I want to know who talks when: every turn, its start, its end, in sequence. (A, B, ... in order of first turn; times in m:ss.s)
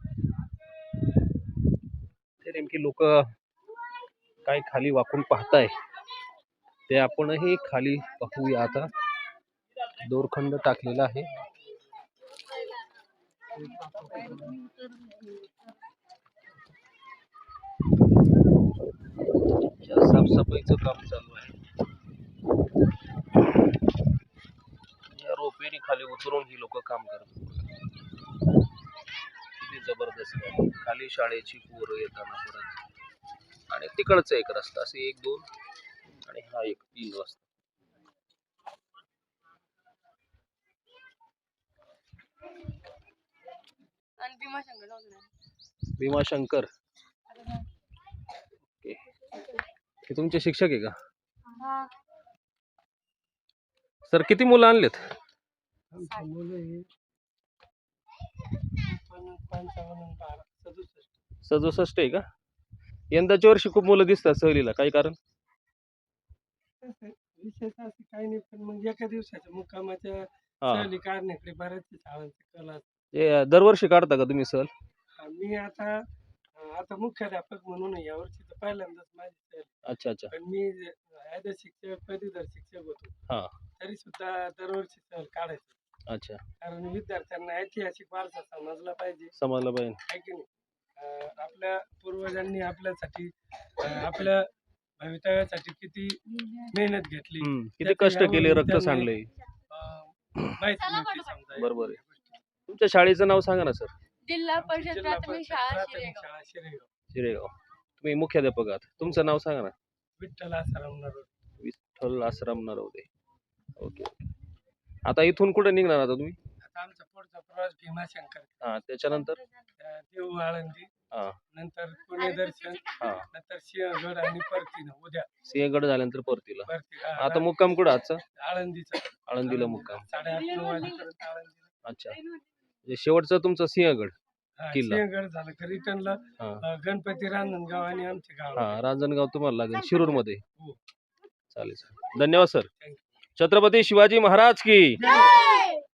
0:02.4-0:03.3 A
0:04.4-0:05.7 A
0:06.9-0:08.9 A
0:10.0-0:11.3 A
0:19.8-0:21.6 A
0:25.1-0:27.7 A
0:29.6-0:32.8 A
0:33.7-0:35.4 A
0:36.2-0:37.4 A
0:44.2-0:45.3 B
0:46.0-0:46.7 A
0:50.0-0:51.0 A
0:51.6-0:51.9 B
0:54.0-0:55.0 A
0:55.9-0:56.9 C
0:58.6-1:01.1 C
1:01.4-1:02.2 A
1:03.1-1:05.2 A
1:06.8-1:12.8 C
1:10.6-1:10.9 A
1:13.1-1:14.7 A
1:15.2-1:16.0 C
1:16.6-1:19.7 C
1:19.9-1:20.4 A
1:20.3-1:23.1 C
1:23.3-1:23.6 A
1:23.8-1:25.8 C
1:26.1-1:26.4 A
1:26.6-1:29.3 C
1:29.4-1:30.0 A
1:30.1-1:34.4 C
1:35.0-1:39.2 C
1:37.4-1:39.3 A
1:39.7-1:42.2 C
1:40.8-1:41.3 B
1:41.5-1:42.0 A
1:42.7-1:43.9 A
1:44.2-1:46.2 B
1:44.6-1:46.9 C
1:47.1-1:49.8 A
1:50.2-1:51.3 C
1:51.6-1:53.1 A
1:53.8-1:54.3 A
1:55.0-1:56.4 A
1:56.7-1:58.6 C
1:58.6-1:59.4 A
1:59.8-2:00.9 C
2:01.1-2:01.4 A
2:01.5-2:05.3 C
2:02.9-2:03.3 A
2:05.4-2:08.2 A
2:06.7-2:07.5 C
2:08.3-2:11.7 C
2:09.3-2:10.1 A
2:11.8-2:12.2 A
2:12.8-2:14.2 A
2:14.6-2:18.8 C
2:14.7-2:15.0 A
2:18.6-2:20.4 A
2:21.5-2:22.7 A
2:23.4-2:25.3 A
2:25.1-2:25.5 C